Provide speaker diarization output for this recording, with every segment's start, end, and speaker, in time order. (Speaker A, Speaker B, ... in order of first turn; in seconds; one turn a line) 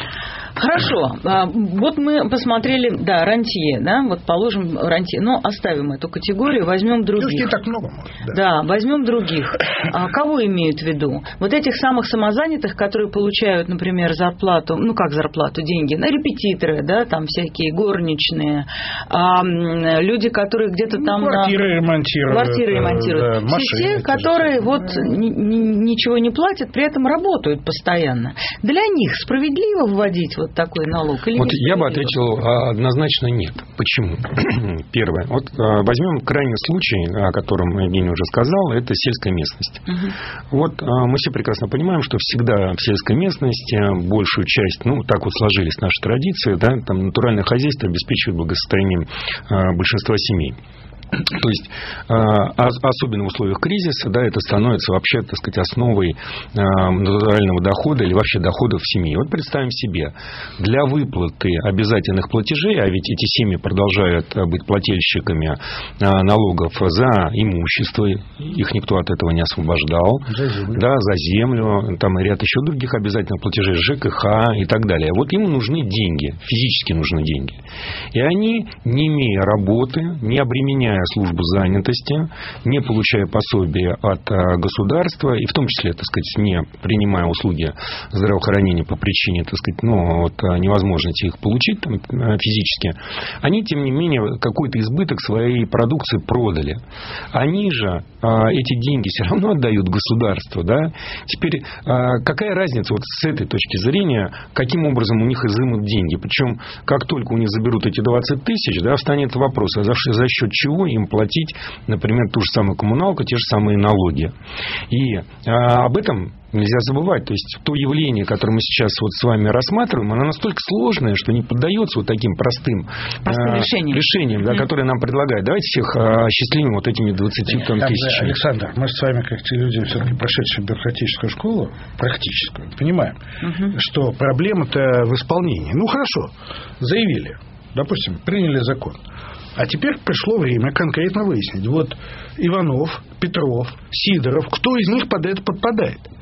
Speaker A: 0.6-7.5
Speaker B: 7.2-8.4
Speaker A: 8.3-21.6
Speaker B: 20.9-25.1
Speaker A: 22.3-32.1
Speaker C: 31.4-50.5
Speaker C: 51.2-77.6
Speaker B: 70.3-70.8
Speaker C: 78.1-96.8
Speaker C: 97.3-114.3
Speaker C: 114.9-128.4
Speaker A: 123.2-124.0
Speaker B: 127.5-133.2
Speaker A: 133.4-133.7
Speaker B: 133.7-139.0
Speaker B: 139.6-146.1